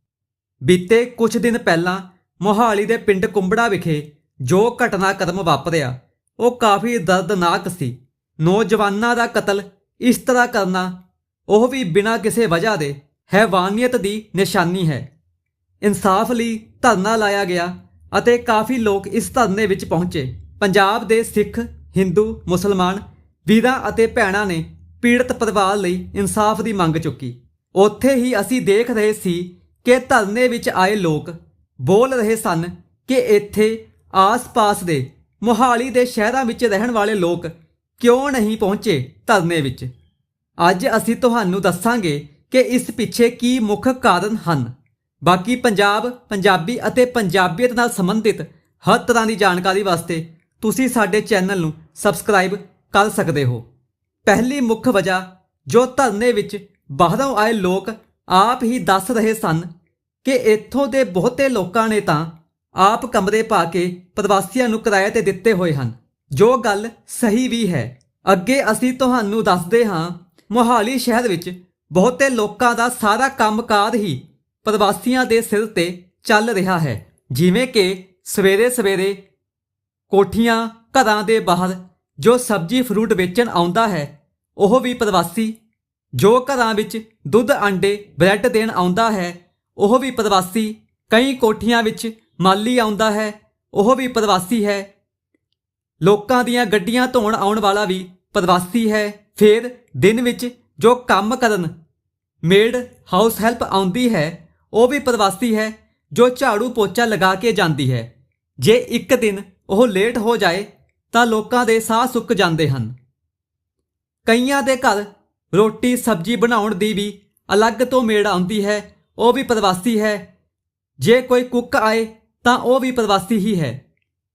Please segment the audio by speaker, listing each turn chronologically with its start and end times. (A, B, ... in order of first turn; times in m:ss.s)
0:00.6-0:10.9 A
0:11.5-0:15.1 A
0:15.8-0:39.9 A
0:40.6-0:44.7 A
0:45.2-0:53.6 A
0:54.2-0:59.7 A
1:00.2-1:19.2 A
1:20.1-1:25.6 A
1:26.1-1:34.9 A
1:36.0-1:41.7 A
1:42.4-1:52.9 A
1:54.2-2:00.2 A
2:01.0-2:03.8 A